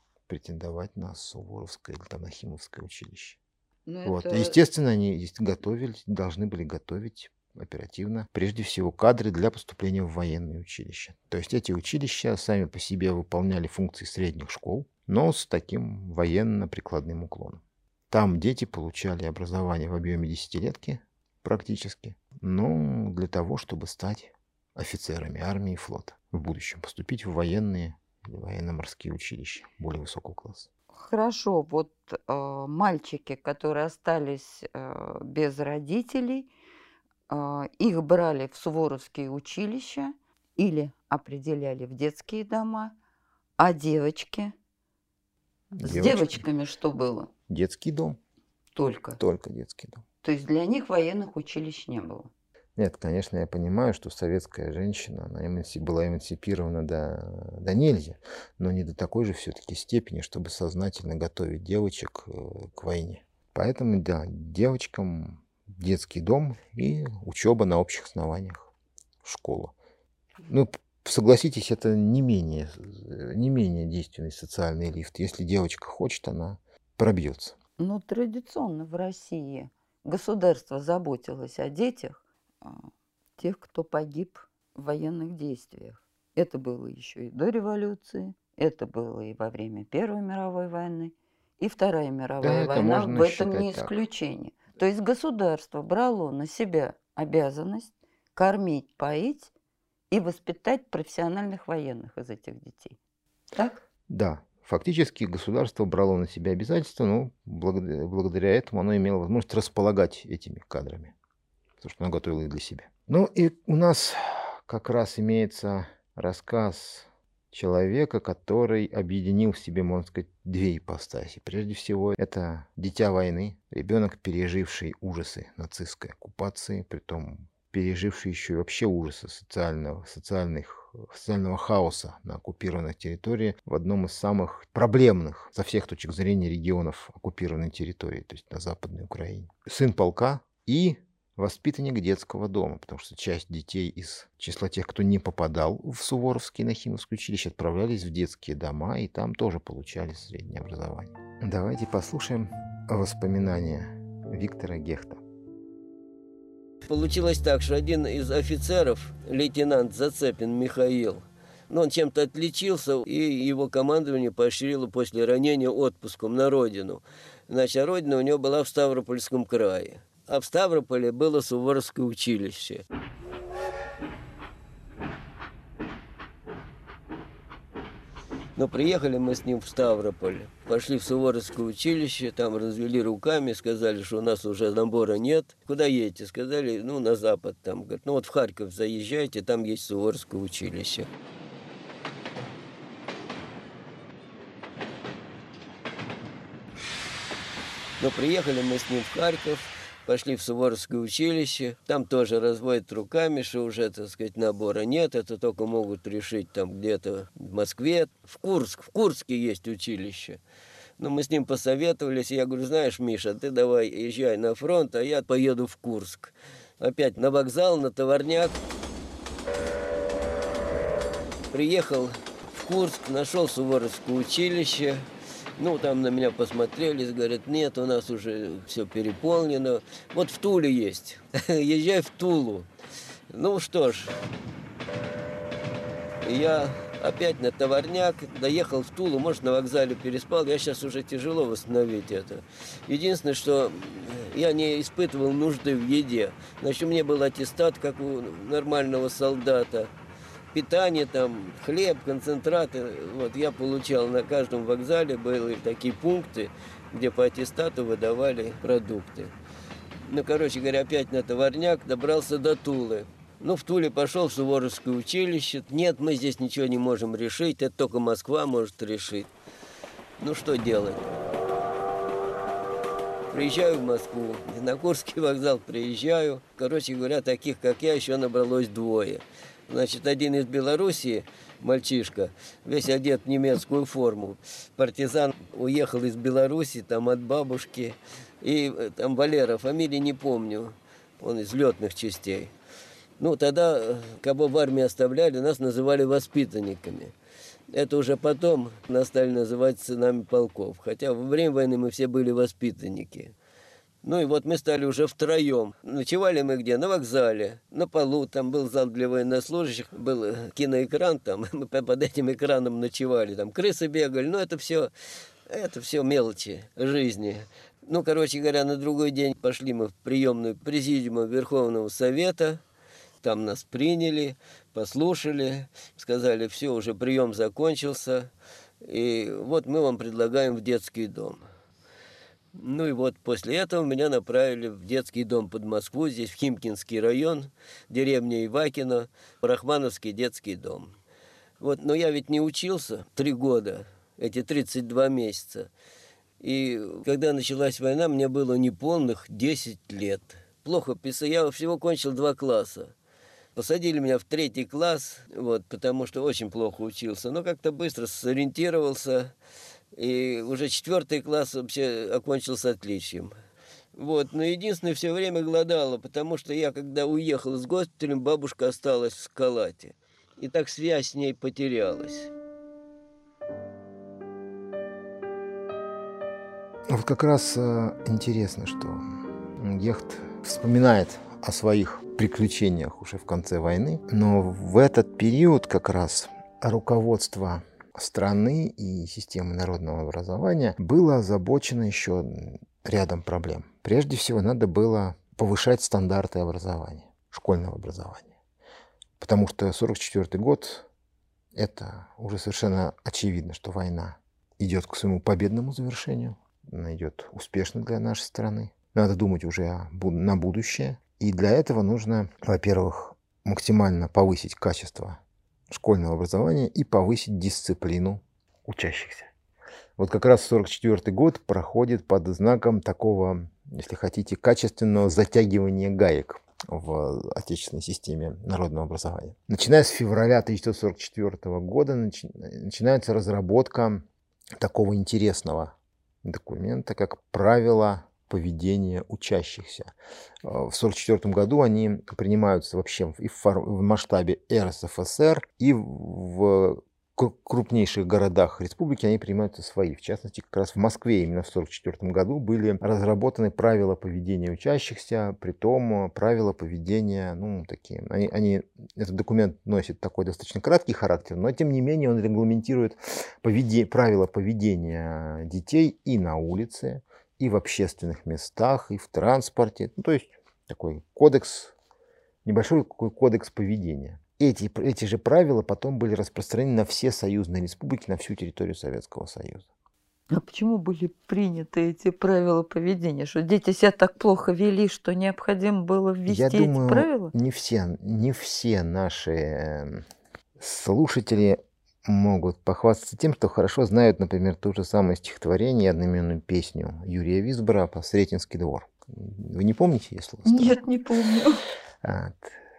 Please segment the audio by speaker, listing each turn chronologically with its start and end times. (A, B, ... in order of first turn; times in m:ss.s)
0:00.3-0:03.4 A
0:03.8-0:04.6 B
0:04.0-0:30.7 A
0:30.9-0:36.5 B
0:37.3-0:42.9 B
0:43.6-0:44.5 B
0:45.7-0:46.4 A
0:45.8-0:47.3 B
0:47.5-0:48.2 A
0:48.7-0:49.2 B
0:49.2-0:50.0 A
0:50.2-0:52.3 B
0:52.8-1:08.7 A
1:09.2-1:09.7 A
1:10.4-1:17.6 A
1:17.8-1:22.8 B
1:23.4-1:39.5 B
1:32.4-1:33.9 A
1:40.1-1:43.0 B
1:44.1-1:51.1 A
1:51.8-2:35.2 A
2:36.8-2:52.8 C
2:58.6-3:11.1 C
3:18.0-3:30.4 C
3:31.0-3:38.6 C
3:41.5-3:45.0 C
3:45.6-3:52.7 C
3:53.3-3:54.2 C
3:56.2-4:09.9 C
4:10.5-4:19.3 C
4:20.0-4:29.3 C
4:30.2-4:31.0 C
4:33.3-4:52.5 C
4:53.2-4:57.1 C
4:57.7-5:03.3 C
5:04.0-5:14.9 C
5:15.5-5:22.6 C
5:23.2-5:28.3 C
5:28.8-5:31.4 C
5:32.6-5:40.9 C
5:41.6-5:45.7 C
5:46.4-5:52.9 C
5:53.5-5:59.3 C
5:59.9-6:03.3 C
6:03.9-6:12.3 C
6:16.9-6:38.3 A
6:39.2-6:40.9 A
6:41.5-6:59.3 A
7:00.0-7:14.0 A
7:14.6-7:19.9 A
7:20.4-7:51.7 A
7:52.4-7:59.6 A
8:00.3-8:07.3 B
8:06.2-8:10.0 A
8:10.6-8:20.8 A
8:20.4-8:21.6 B
8:22.0-8:22.6 A